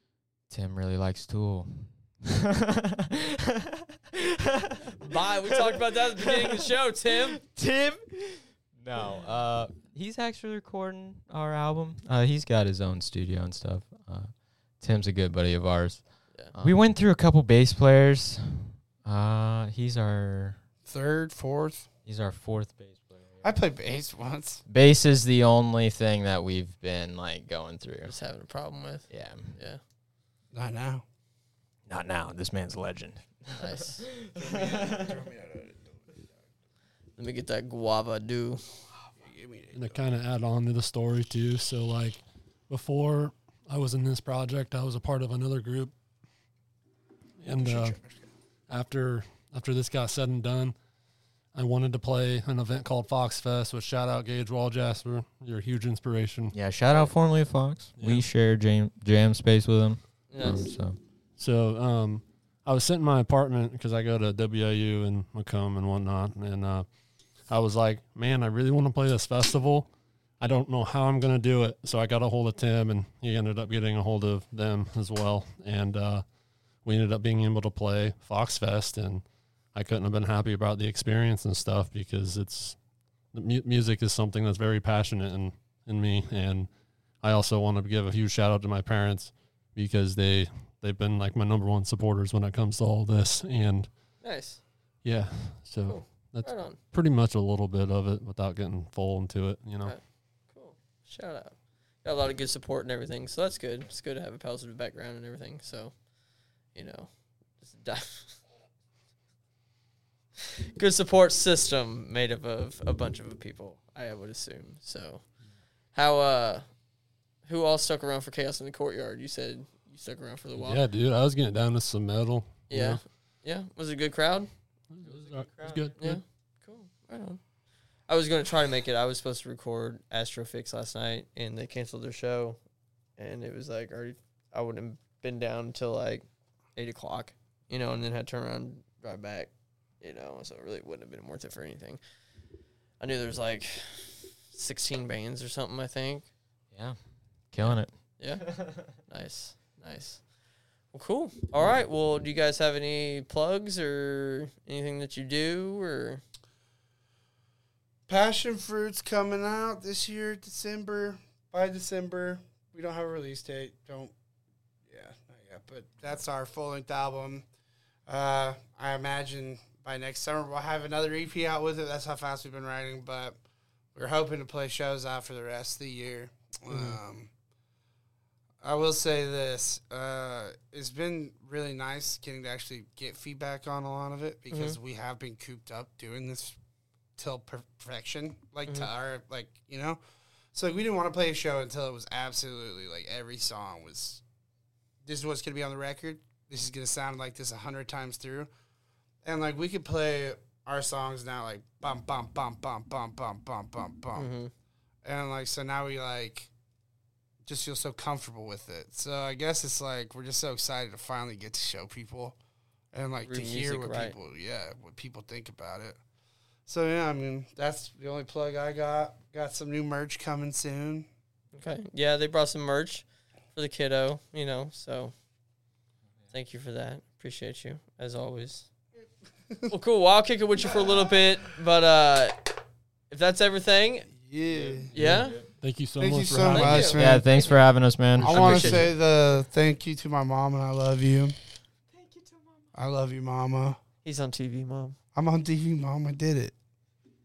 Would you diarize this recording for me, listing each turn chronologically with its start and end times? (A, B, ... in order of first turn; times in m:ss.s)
0:00.5-0:06.7 A
0:05.0-0:07.4 B
0:07.2-0:20.6 A
0:20.8-0:21.9 C
0:22.1-0:23.6 A
0:23.4-0:24.6 C
0:24.7-0:28.2 A
0:28.1-0:29.8 B
0:29.1-0:29.6 A
0:30.5-0:31.0 C
0:31.9-0:35.2 A
0:33.6-0:34.0 B
0:34.4-0:36.3 C
0:37.2-0:38.6 B
0:39.2-0:40.1 C
0:39.7-0:45.9 D
0:47.4-0:48.0 D
0:47.6-0:48.3 C
0:48.7-0:50.8 D
0:51.5-0:56.6 D
0:56.5-1:01.0 A
0:58.0-0:58.3 D
1:00.3-1:00.7 B
1:01.4-1:06.9 D
1:07.5-1:09.9 D
1:10.4-1:16.2 D
1:16.8-1:22.8 D
1:23.3-1:26.7 D
1:27.2-1:33.9 D
1:34.2-1:34.6 B
1:35.0-1:40.0 D
1:35.9-1:36.8 B
1:39.8-1:45.9 B
1:46.8-1:48.4 B
1:50.8-1:55.2 B
1:55.9-1:56.6 B
1:57.4-2:00.8 B
2:00.6-2:03.0 D
2:02.7-2:04.5 B
2:04.9-2:06.2 D
2:05.0-2:06.0 A
2:06.0-2:07.4 B
2:08.1-2:12.6 B
2:13.2-2:19.5 B
2:20.0-2:22.0 B
2:23.0-2:26.3 B
2:27.5-2:27.9 A
2:27.6-2:30.2 B
2:28.4-2:28.9 A
2:30.9-2:36.2 B
2:38.1-2:44.1 C
2:44.9-2:47.5 C
2:48.1-2:53.4 C
2:54.0-2:57.3 C
2:56.7-2:57.0 B
2:58.6-3:06.6 C
3:04.5-3:04.8 B
3:07.2-3:10.0 C
3:10.5-3:14.2 C
3:15.0-3:18.5 C
3:19.2-3:24.3 C
3:24.2-3:24.5 B
3:25.0-3:26.5 C
3:27.5-3:32.4 C
3:32.9-3:36.0 C
3:33.2-3:34.2 B
3:36.7-3:41.1 C
3:41.5-3:45.1 B
3:46.3-3:48.7 B
3:49.7-3:54.1 B
3:54.2-3:54.9 C
3:54.5-3:55.5 A
3:54.9-3:55.4 B
3:55.6-3:57.0 D
3:56.0-3:57.4 C
3:56.5-3:57.0 B
3:57.0-3:58.9 A
3:58.2-4:01.4 C
3:58.3-3:58.9 B
4:02.0-4:02.6 A
4:02.8-4:03.8 C
4:04.0-4:05.0 B
4:05.2-4:06.5 C